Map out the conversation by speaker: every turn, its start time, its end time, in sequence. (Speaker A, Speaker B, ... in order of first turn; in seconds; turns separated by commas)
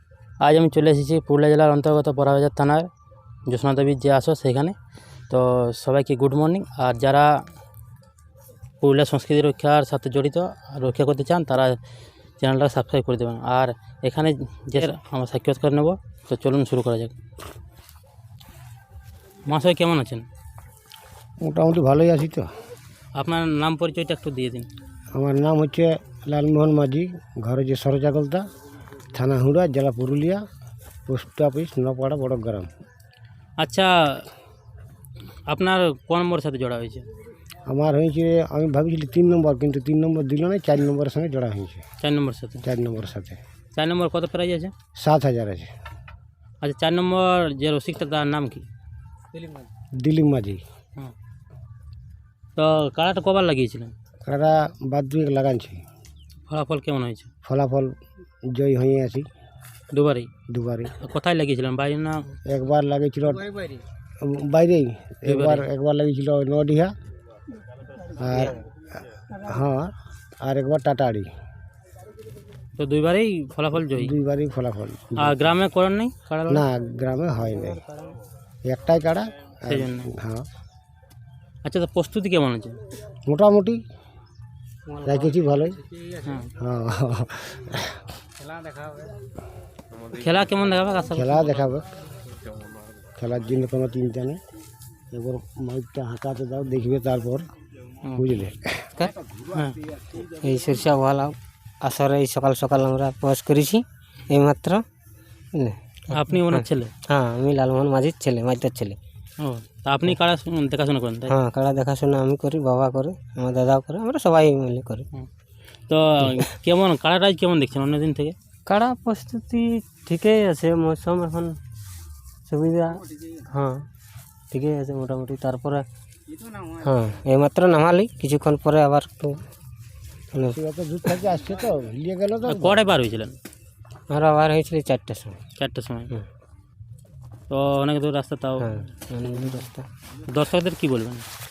Speaker A: 0.4-2.9, Speaker A: 3.5-4.7, Speaker A: 5.3-7.4, Speaker A: 8.8-11.8, Speaker A: 12.4-17.1, Speaker A: 19.4-20.2, Speaker B: 21.4-22.5, Speaker A: 23.1-24.7, Speaker B: 25.1-28.4, Speaker B: 29.1-30.4, Speaker B: 31.1-32.7, Speaker A: 33.6-34.3, Speaker A: 35.5-37.0, Speaker B: 37.7-41.8, Speaker A: 42.0-42.6, Speaker B: 42.6-43.4, Speaker A: 43.7-44.7, Speaker B: 45.0-45.7, Speaker A: 46.6-48.7, Speaker B: 50.0-50.6, Speaker A: 52.5-53.9, Speaker B: 54.2-55.8, Speaker A: 56.5-57.3, Speaker B: 57.4-57.9, Speaker B: 58.5-59.2, Speaker A: 59.9-60.3, Speaker B: 60.5-60.9, Speaker A: 61.0-62.3, Speaker B: 62.5-63.5, Speaker B: 64.2-66.9, Speaker A: 65.2-65.7, Speaker B: 68.2-68.6, Speaker B: 69.2-71.3, Speaker A: 72.8-74.1, Speaker B: 73.9-75.5, Speaker A: 75.2-76.7, Speaker B: 76.5-77.8, Speaker B: 78.7-80.5, Speaker A: 79.7-80.1, Speaker A: 81.6-82.8, Speaker B: 83.3-83.8, Speaker B: 85.0-85.8, Speaker A: 86.2-86.5, Speaker B: 86.6-88.0, Speaker A: 90.1-91.5, Speaker B: 91.1-91.9, Speaker B: 93.2-94.4, Speaker B: 95.1-97.5, Speaker A: 98.0-98.3, Speaker B: 98.1-98.9, Speaker A: 99.5-99.8, Speaker C: 100.2-104.8, Speaker C: 105.5-109.0, Speaker A: 106.1-106.9, Speaker A: 109.4-111.3, Speaker C: 111.3-115.1, Speaker A: 115.9-118.3, Speaker C: 118.7-121.6, Speaker C: 122.5-123.8, Speaker C: 124.5-125.8, Speaker C: 126.7-129.4, Speaker B: 130.5-132.8, Speaker A: 132.4-133.4, Speaker C: 134.1-135.4, Speaker A: 135.6-136.1, Speaker A: 137.5-138.8, Speaker C: 138.6-139.8, Speaker A: 140.3-141.2